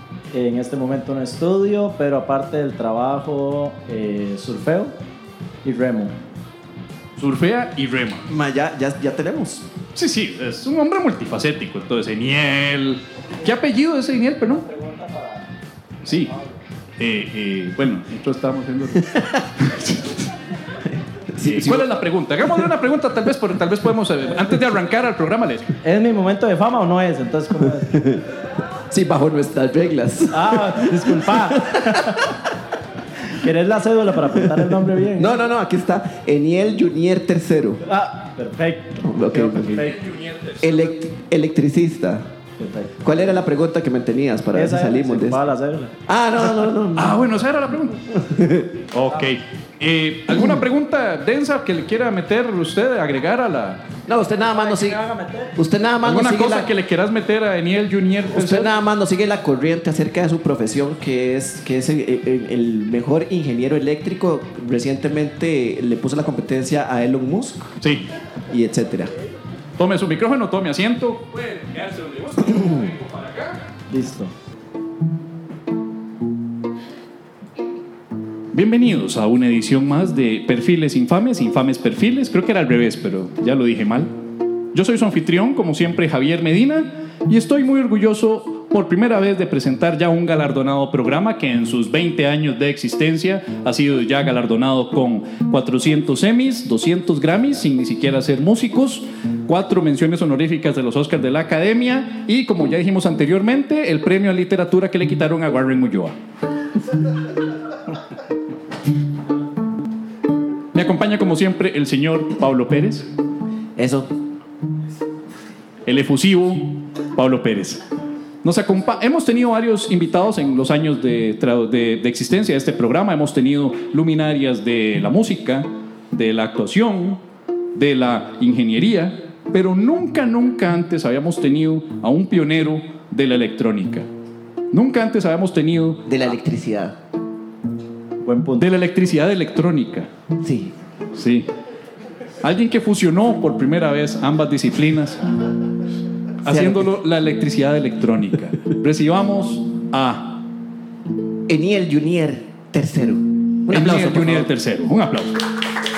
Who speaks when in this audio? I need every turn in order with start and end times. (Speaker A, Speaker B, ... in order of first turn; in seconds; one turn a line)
Speaker A: 0.3-4.9
Speaker A: 5.6-6.1
Speaker B: 7.2-8.2
Speaker C: 8.3-9.7
Speaker B: 9.9-14.7
Speaker A: 14.5-15.5
Speaker B: 16.0-16.3
Speaker A: 16.3-16.6
Speaker B: 17.0-20.3
Speaker C: 19.1-19.4
Speaker C: 20.9-22.7
Speaker B: 21.4-25.7
Speaker A: 25.8-27.9
Speaker C: 27.8-28.2
Speaker C: 28.9-32.4
Speaker A: 30.3-32.3
Speaker A: 33.3-35.4
Speaker C: 34.4-37.8
Speaker A: 37.9-40.0
Speaker C: 39.0-39.9
Speaker B: 39.7-40.8
Speaker C: 40.6-42.3
Speaker A: 42.6-43.0
Speaker C: 43.0-45.4
Speaker A: 44.5-45.9
Speaker C: 46.1-47.2
Speaker B: 47.0-48.1
Speaker C: 48.1-48.8
Speaker B: 48.9-53.8
Speaker C: 54.1-55.0
Speaker A: 54.4-55.5
Speaker C: 55.6-56.7
Speaker B: 56.0-58.7
Speaker C: 58.3-67.7
Speaker B: 67.8-68.1
Speaker C: 68.5-69.1
Speaker B: 69.8-73.6
Speaker A: 73.9-74.3
Speaker B: 78.5-84.1
Speaker B: 84.7-106.2
Speaker B: 110.7-113.1
Speaker C: 113.8-114.1
Speaker B: 115.9-117.8
Speaker B: 118.4-127.2
Speaker B: 127.7-134.1
Speaker B: 134.7-136.1
Speaker C: 136.1-136.9
Speaker A: 138.2-138.7
Speaker B: 138.6-140.1
Speaker C: 140.4-140.7
Speaker B: 141.1-141.5
Speaker B: 142.4-145.2
Speaker B: 146.4-150.4
Speaker C: 146.4-146.9
Speaker C: 151.5-154.5
Speaker B: 153.7-155.5